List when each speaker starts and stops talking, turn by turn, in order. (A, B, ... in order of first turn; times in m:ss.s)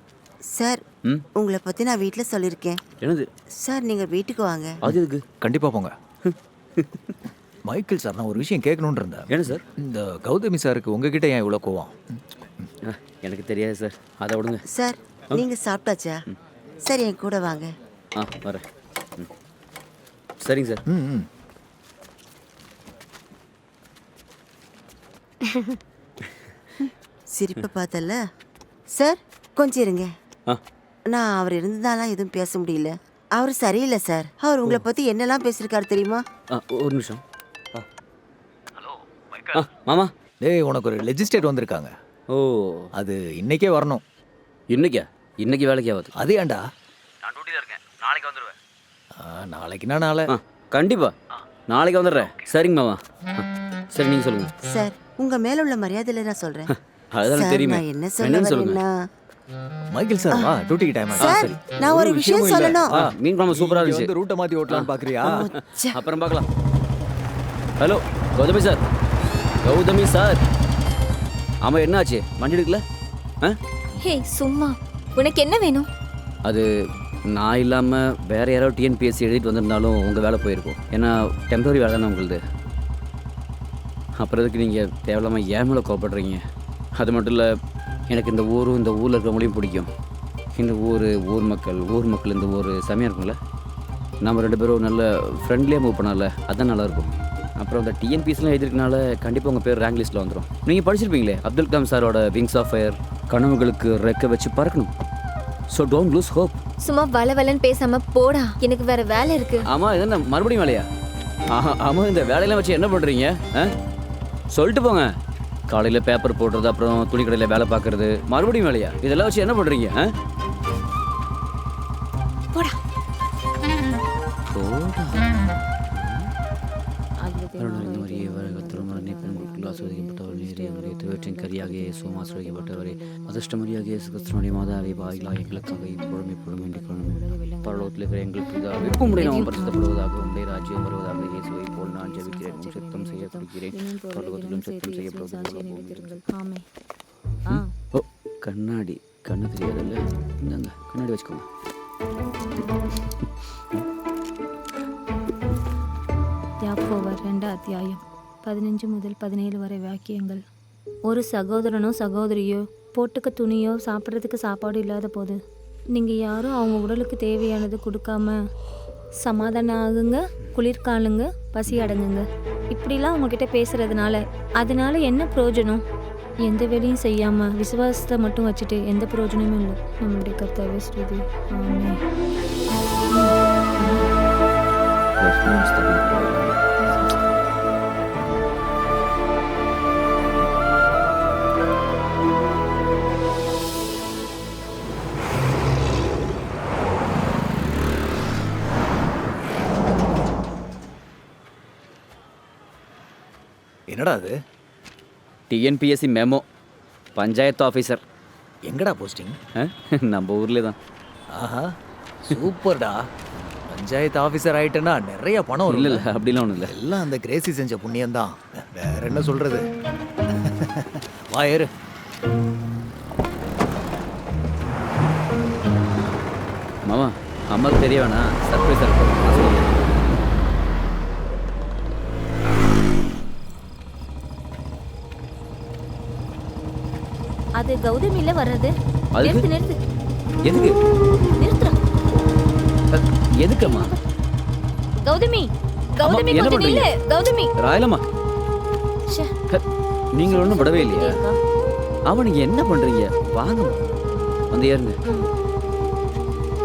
0:00.5-0:00.8 A
0:01.4-0:02.8 A
0:03.0-0:03.3 B
0:03.6-0:04.8 A
0:04.8-0:05.2 B
0:05.4-0:05.9 C
0:07.7-0:12.0 C
0:09.3-0:09.6 B
0:12.9-0:14.6 B
0:14.7-0:16.2 A
0:16.8-0:17.7 A
0:18.2-0:18.6 B
0:20.4-0:20.8 B
0:20.9-0:21.3 C
0:26.8-0:28.2 A
0:28.9-0:30.1 A
0:31.1-0:36.2 A
0:36.5-0:37.2 B
0:39.5-0:40.1 B
0:40.4-0:41.9 C
0:42.3-0:42.9 B
0:43.0-0:44.0 C
0:44.7-0:46.1 B
0:46.1-0:46.6 C
0:47.2-0:48.5 B
0:49.2-0:50.3 C
0:50.3-0:51.1 B
0:51.7-0:54.5 B
0:54.7-0:56.7 A
0:56.7-0:58.8 B
0:57.3-0:59.0 A
0:59.9-1:05.5 C
1:01.2-1:04.1 B
1:01.2-1:02.9 A
1:04.7-1:06.4 B
1:05.2-1:06.0 A
1:07.8-1:08.8 B
1:09.6-1:10.4 B
1:11.6-1:12.8 B
1:14.0-1:15.9 D
1:17.3-1:22.4 B
1:24.2-1:26.4 B
1:27.0-1:27.5 B
1:28.1-1:29.9 B
1:30.6-1:33.4 B
1:34.2-1:44.9 B
1:45.7-1:46.6 B
1:46.8-1:49.6 D
1:49.6-1:50.9 B
1:51.5-1:53.7 B
1:54.5-1:55.1 B
1:55.7-2:00.1 B
2:04.5-2:06.3 B
2:07.2-2:18.2 E
2:07.6-2:26.2 B
2:18.8-2:20.7 E
2:21.4-2:26.6 E
2:27.5-2:31.4 B
2:36.6-2:40.4 E
2:41.1-2:45.4 E
2:45.9-2:48.4 E
2:49.2-2:55.8 E
2:56.5-3:02.0 E
3:03.1-3:04.1 E
3:05.2-3:06.6 B
3:23.9-3:24.3 C
3:25.5-3:26.4 B
3:27.2-3:28.0 B
3:28.6-3:29.4 C
3:29.6-3:30.8 B
3:31.3-3:33.1 C
3:33.7-3:36.1 C
3:35.7-3:36.7 B
3:36.6-3:39.6 C
3:40.3-3:41.7 C
3:46.8-3:50.0 B
3:57.6-3:59.8 E
3:59.2-3:59.5 B
4:00.4-4:00.7 B
4:01.4-4:01.7 E
4:02.9-4:03.9 B
4:03.6-4:04.0 E
4:05.0-4:07.5 E
4:06.0-4:06.9 B
4:07.6-4:08.0 B
4:10.1-4:11.2 B
4:10.2-4:11.4 E
4:12.1-4:13.8 B
4:14.5-4:15.0 B